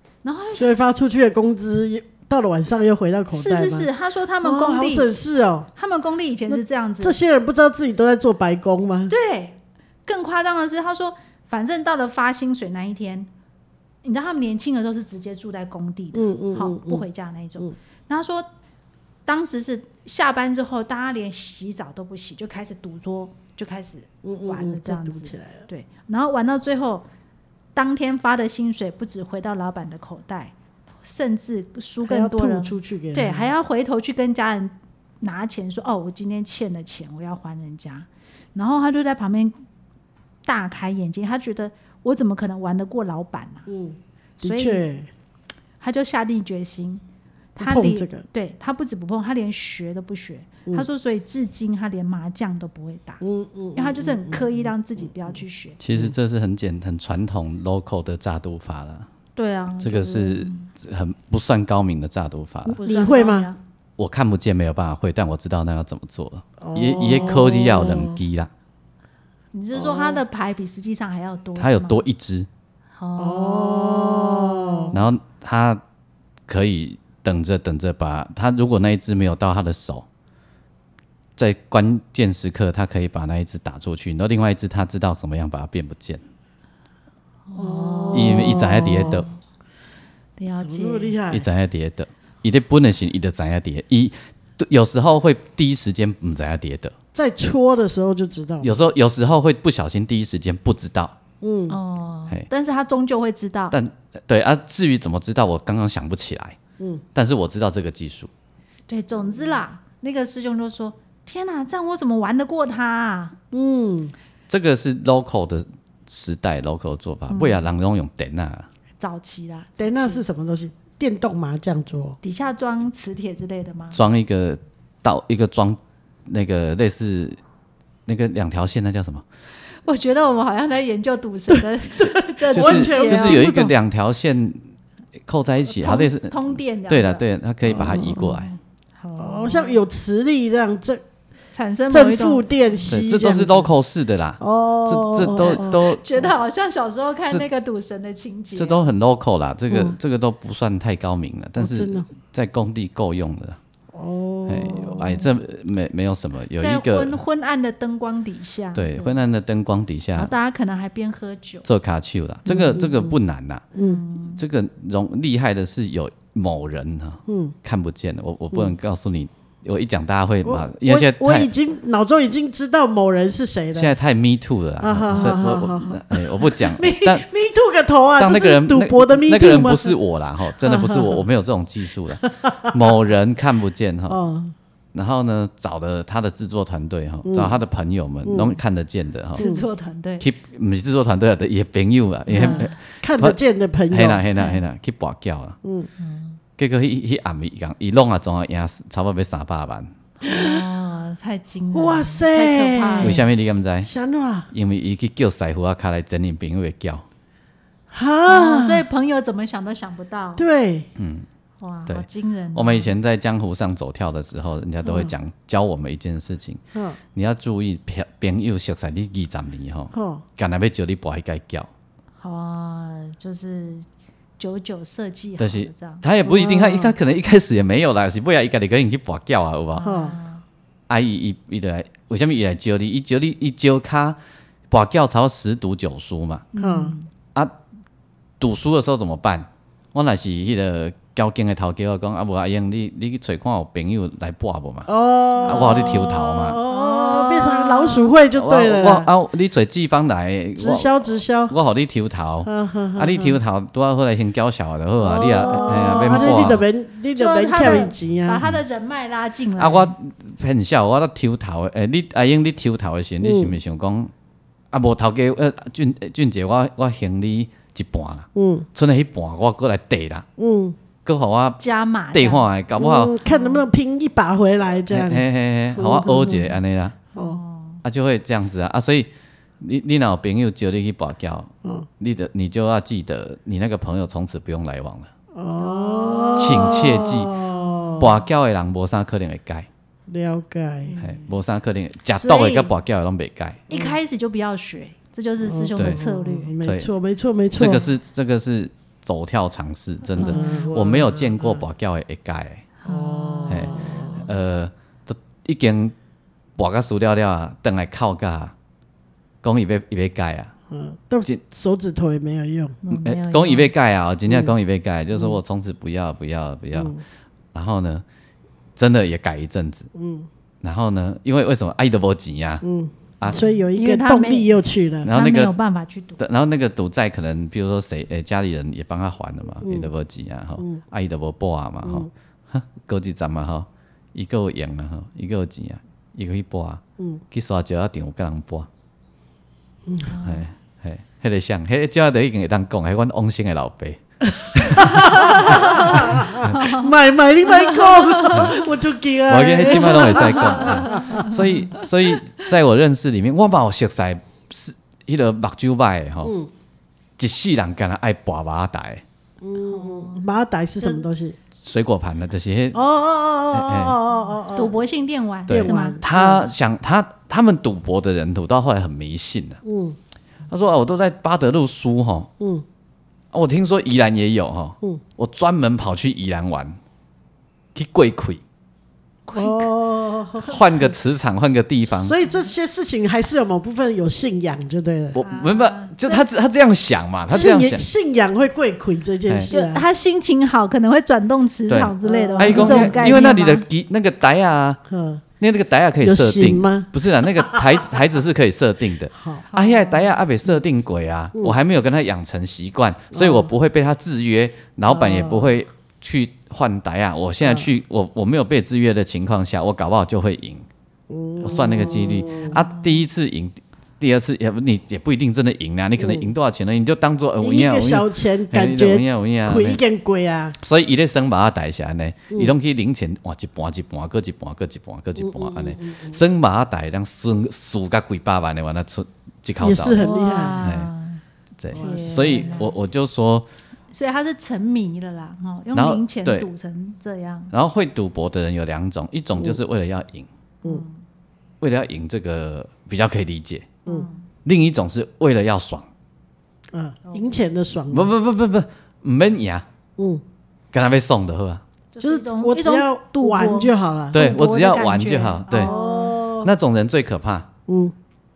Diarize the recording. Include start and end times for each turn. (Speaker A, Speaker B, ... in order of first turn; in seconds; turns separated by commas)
Speaker A: 0.2-0.7, Speaker B: 0.6-3.9, Speaker A: 3.3-5.1, Speaker B: 4.4-5.7, Speaker A: 5.8-7.2, Speaker B: 6.5-9.1, Speaker A: 9.1-13.3, Speaker A: 14.0-18.5, Speaker B: 16.1-17.1, Speaker A: 19.3-27.1, Speaker B: 24.2-25.7, Speaker A: 27.8-39.6, Speaker B: 32.0-33.5, Speaker A: 40.5-43.7, Speaker B: 43.7-45.1, Speaker A: 44.4-44.9, Speaker A: 45.8-47.0, Speaker A: 47.6-53.2, Speaker B: 47.6-48.2, Speaker B: 53.2-54.7, Speaker A: 53.8-55.8, Speaker C: 55.8-59.1, Speaker A: 59.4-60.7, Speaker C: 59.8-62.8, Speaker A: 62.7-63.6, Speaker B: 62.8-63.5, Speaker C: 64.0-68.5, Speaker B: 66.6-68.2, Speaker A: 69.5-72.0, Speaker B: 69.7-70.2, Speaker C: 71.6-72.5, Speaker A: 73.0-75.0, Speaker B: 73.2-75.0, Speaker C: 74.9-75.8, Speaker C: 76.5-80.0, Speaker C: 81.4-86.2, Speaker A: 87.5-89.4, Speaker B: 87.6-89.2, Speaker C: 88.1-89.3, Speaker A: 90.4-91.2, Speaker B: 90.6-91.5, Speaker C: 91.3-96.9, Speaker B: 97.1-98.8, Speaker C: 98.6-101.2, Speaker B: 101.4-101.8, Speaker A: 101.7-103.8, Speaker C: 103.7-106.6, Speaker C: 107.2-108.3, Speaker A: 108.9-113.4, Speaker B: 113.5-114.1, Speaker C: 114.5-118.7, Speaker A: 117.3-117.7, Speaker A: 119.0-120.2, Speaker B: 119.8-122.2, Speaker A: 122.2-124.0, Speaker C: 123.9-127.4, Speaker C: 128.1-129.2, Speaker A: 129.8-133.6, Speaker B: 131.5-133.7, Speaker C: 132.5-134.6, Speaker C: 135.3-138.5, Speaker A: 135.7-137.2, Speaker B: 137.7-138.4, Speaker A: 138.4-139.8, Speaker B: 139.2-141.0, Speaker A: 141.5-142.9, Speaker B: 141.9-143.7, Speaker C: 142.9-146.1, Speaker B: 144.4-145.8, Speaker A: 145.3-148.9, Speaker C: 148.6-153.6, Speaker B: 149.7-150.0, Speaker B: 151.6-152.1, Speaker B: 153.9-155.1, Speaker C: 154.5-157.2, Speaker A: 154.6-155.3, Speaker A: 156.6-159.2, Speaker C: 158.8-160.3, Speaker A: 160.2-161.7, Speaker C: 161.7-163.7, Speaker B: 162.5-163.2, Speaker B: 163.7-164.0, Speaker A: 163.8-164.4, Speaker C: 164.4-171.5, Speaker B: 167.3-167.6, Speaker B: 170.4-174.0, Speaker C: 173.8-177.3, Speaker B: 174.8-180.0, Speaker C: 178.2-184.2, Speaker B: 180.6-181.2, Speaker B: 182.2-182.9, Speaker B: 184.1-184.5, Speaker C: 184.9-189.5, Speaker B: 187.2-187.6, Speaker B: 188.2-188.6, Speaker A: 189.4-190.3, Speaker B: 189.4-189.6, Speaker C: 190.2-193.4, Speaker B: 192.3-194.2, Speaker A: 192.3-192.8, Speaker C: 193.9-195.6, Speaker A: 194.4-194.6, Speaker B: 195.6-195.9, Speaker A: 196.0-196.4, Speaker C: 196.6-199.9, Speaker A: 200.2-203.2, Speaker B: 200.3-200.7, Speaker B: 201.7-203.3, Speaker C: 203.0-203.9, Speaker B: 203.8-204.5, Speaker C: 204.5-207.1, Speaker B: 207.9-208.8, Speaker A: 208.3-210.4, Speaker B: 210.4-210.9, Speaker C: 211.0-211.3, Speaker A: 211.6-212.9, Speaker C: 211.9-216.6, Speaker B: 216.7-217.0, Speaker C: 217.1-221.7, Speaker B: 219.9-220.2, Speaker A: 222.2-223.9, Speaker A: 224.4-226.0, Speaker C: 225.4-229.9, Speaker B: 226.2-227.0, Speaker A: 229.8-230.4, Speaker B: 229.8-230.2, Speaker C: 230.9-234.2, Speaker C: 234.7-236.5, Speaker A: 236.5-237.1, Speaker B: 236.6-236.9, Speaker C: 238.4-244.9, Speaker B: 244.9-249.1, Speaker A: 245.3-248.1, Speaker C: 245.5-246.6, Speaker C: 248.3-251.0, Speaker B: 250.6-251.6, Speaker C: 251.5-256.6, Speaker B: 252.4-253.4, Speaker B: 255.0-258.4, Speaker A: 255.4-256.5, Speaker A: 257.1-259.9, Speaker C: 259.6-264.1, Speaker B: 263.2-263.6, Speaker C: 264.7-270.3, Speaker B: 268.4-268.7, Speaker B: 270.4-270.8, Speaker C: 271.1-271.6, Speaker A: 271.6-272.5, Speaker C: 272.1-273.2, Speaker B: 272.8-276.6, Speaker A: 273.2-273.6, Speaker C: 274.9-277.0, Speaker A: 277.1-277.8, Speaker C: 277.8-279.1, Speaker C: 279.6-285.1, Speaker B: 285.3-288.1, Speaker A: 285.6-288.2, Speaker C: 286.4-287.4, Speaker C: 288.0-289.7, Speaker B: 290.1-291.0, Speaker A: 290.9-291.3, Speaker C: 291.0-293.6, Speaker A: 292.1-292.7, Speaker A: 293.7-296.6, Speaker B: 293.7-294.0, Speaker B: 295.4-297.9, Speaker C: 296.6-296.9, Speaker C: 297.6-302.7, Speaker B: 300.2-301.6, Speaker A: 300.2-300.7, Speaker A: 302.8-304.1, Speaker B: 302.9-304.3, Speaker C: 303.5-305.9, Speaker C: 306.6-308.5, Speaker C: 309.4-310.5, Speaker B: 310.7-312.8, Speaker A: 312.8-313.7, Speaker C: 312.9-317.0, Speaker B: 314.3-314.6, Speaker B: 316.7-317.0, Speaker C: 317.5-318.0, Speaker C: 318.8-319.9, Speaker B: 319.9-320.3, Speaker C: 320.6-322.6, Speaker B: 322.6-325.1, Speaker C: 323.2-323.5, Speaker A: 323.3-326.2, Speaker C: 325.0-325.5, Speaker C: 326.2-338.7, Speaker B: 329.6-329.9, Speaker B: 331.8-332.1, Speaker B: 339.9-340.2, Speaker A: 340.1-340.4, Speaker C: 340.2-344.0, Speaker B: 344.3-351.5, Speaker C: 344.5-346.6, Speaker A: 344.9-346.9, Speaker A: 347.4-348.6, Speaker C: 349.3-356.4, Speaker A: 349.7-351.6, Speaker B: 356.2-356.5, Speaker C: 357.2-359.0, Speaker B: 359.4-361.4, Speaker A: 359.7-360.2, Speaker C: 361.6-362.8, Speaker B: 362.7-364.8, Speaker C: 363.5-364.0, Speaker A: 364.5-366.0, Speaker B: 365.5-366.5, Speaker C: 365.5-369.6, Speaker B: 369.6-370.0, Speaker C: 370.5-372.3, Speaker B: 372.4-372.6, Speaker C: 373.3-376.8, Speaker C: 377.8-378.4, Speaker A: 379.3-379.7, Speaker B: 379.3-380.6, Speaker C: 380.4-382.2, Speaker B: 381.9-385.2, Speaker C: 385.1-387.9, Speaker A: 385.2-386.2, Speaker B: 387.3-389.9, Speaker A: 389.5-393.6, Speaker C: 391.7-394.8, Speaker B: 392.0-393.3, Speaker B: 394.9-395.2, Speaker C: 395.4-410.7, Speaker B: 396.0-397.9, Speaker B: 399.1-399.5, Speaker A: 399.5-400.2, Speaker B: 403.1-403.5, Speaker B: 404.9-405.5, Speaker B: 407.4-407.7, Speaker B: 411.1-412.6, Speaker C: 411.4-419.8, Speaker A: 412.5-412.8, Speaker B: 416.0-416.3, Speaker B: 417.4-420.6, Speaker C: 420.6-430.0, Speaker B: 425.2-426.2, Speaker B: 429.6-430.7, Speaker A: 429.9-431.2, Speaker C: 430.6-430.9, Speaker C: 431.6-433.5, Speaker B: 431.7-432.7, Speaker A: 431.7-432.8, Speaker A: 433.9-437.5, Speaker C: 435.7-436.5, Speaker C: 437.5-440.3, Speaker A: 440.6-441.0, Speaker C: 441.6-443.8, Speaker A: 443.9-444.3, Speaker C: 444.4-445.9, Speaker B: 446.7-448.1, Speaker A: 447.1-447.4, Speaker C: 447.9-449.7, Speaker B: 450.0-450.2, Speaker C: 450.7-451.6, Speaker A: 451.9-456.2, Speaker B: 452.0-454.2, Speaker C: 454.1-455.7, Speaker B: 455.5-456.5, Speaker C: 456.4-457.5, Speaker B: 457.7-457.9